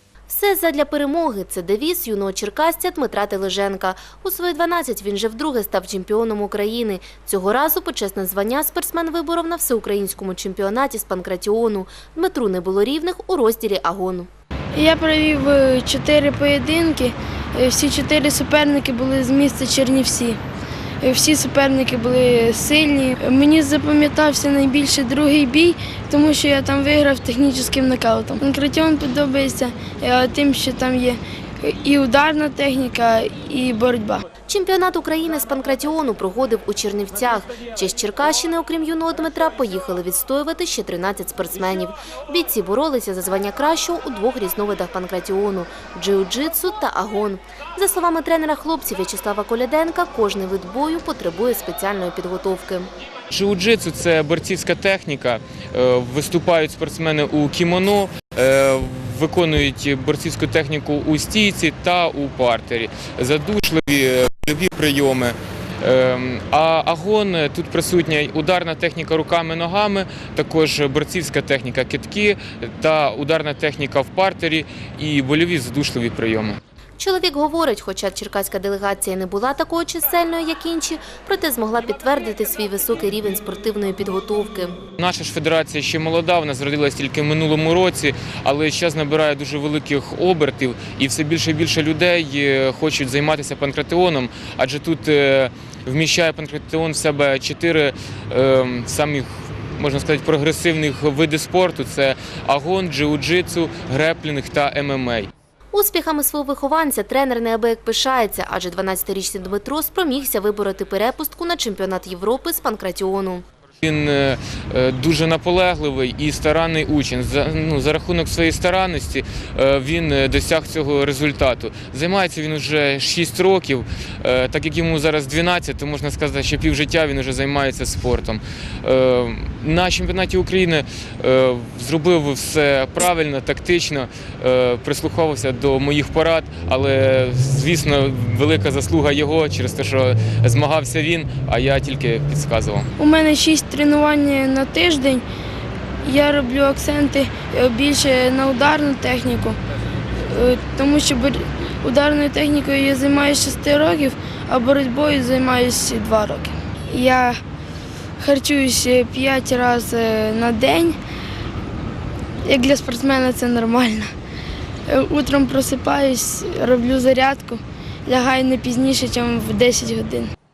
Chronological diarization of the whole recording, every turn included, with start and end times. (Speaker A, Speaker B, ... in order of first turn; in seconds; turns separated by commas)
Speaker A: 0.3-14.3, Speaker B: 14.7-20.4, Speaker B: 21.0-34.2, Speaker A: 34.5-52.9, Speaker C: 53.3-76.6, Speaker A: 77.0-84.8, Speaker C: 85.0-105.3, Speaker A: 105.7-113.5, Speaker C: 113.8-142.9, Speaker B: 143.0-145.2, Speaker B: 146.0-149.6, Speaker B: 150.3-157.4, Speaker B: 158.2-161.0, Speaker B: 162.4-164.1, Speaker B: 164.9-170.3